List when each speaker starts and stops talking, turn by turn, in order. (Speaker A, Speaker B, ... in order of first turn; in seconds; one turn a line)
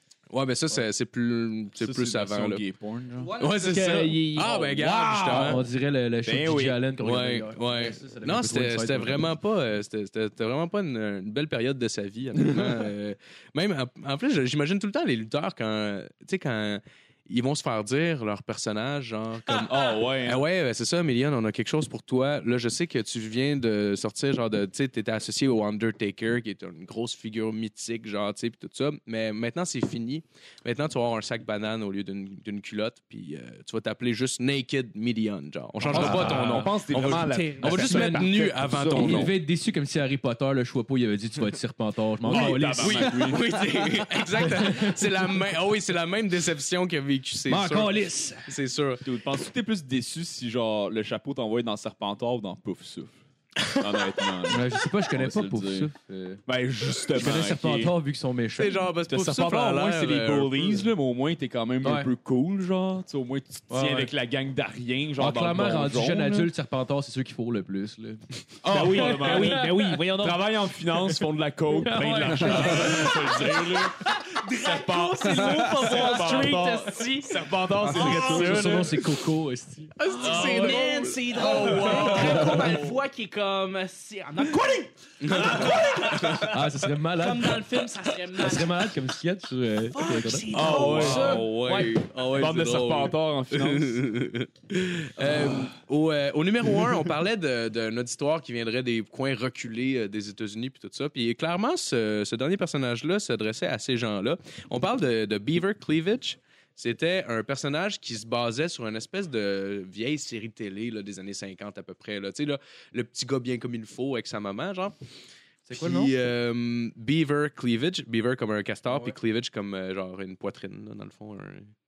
Speaker A: 0.3-2.6
Speaker B: 1.8-3.3
Speaker C: 3.2-4.6
Speaker A: 3.4-5.7
Speaker B: 4.4-5.6
Speaker D: 5.1-9.3
Speaker B: 6.2-6.8
Speaker A: 7.0-39.3
Speaker B: 19.5-20.4
Speaker D: 35.9-36.9
Speaker B: 35.9-39.3
Speaker C: 36.7-38.3
Speaker D: 38.9-43.4
Speaker B: 42.2-43.5
Speaker A: 42.3-49.0
Speaker D: 44.4-45.1
Speaker D: 47.5-48.4
Speaker B: 49.0-53.2
Speaker B: 53.7-55.9
Speaker D: 54.5-56.4
Speaker B: 56.5-57.9
Speaker D: 57.1-58.8
Speaker A: 58.6-60.9
Speaker B: 59.1-66.5
Speaker D: 61.8-62.1
Speaker D: 63.7-64.1
Speaker D: 65.2-68.2
Speaker B: 68.6-74.0
Speaker C: 68.7-70.4
Speaker D: 68.9-69.7
Speaker D: 71.8-73.7
Speaker C: 72.7-78.9
Speaker B: 74.5-79.1
Speaker D: 77.9-80.8
Speaker A: 80.0-82.9
Speaker C: 80.1-86.6
Speaker B: 81.6-82.5
Speaker A: 85.2-86.5
Speaker D: 86.4-87.7
Speaker C: 87.2-88.9
Speaker D: 88.4-91.4
Speaker C: 89.9-91.9
Speaker B: 90.5-94.0
Speaker A: 90.6-115.0
Speaker D: 115.7-116.1
Speaker A: 115.7-121.7
Speaker D: 118.9-119.2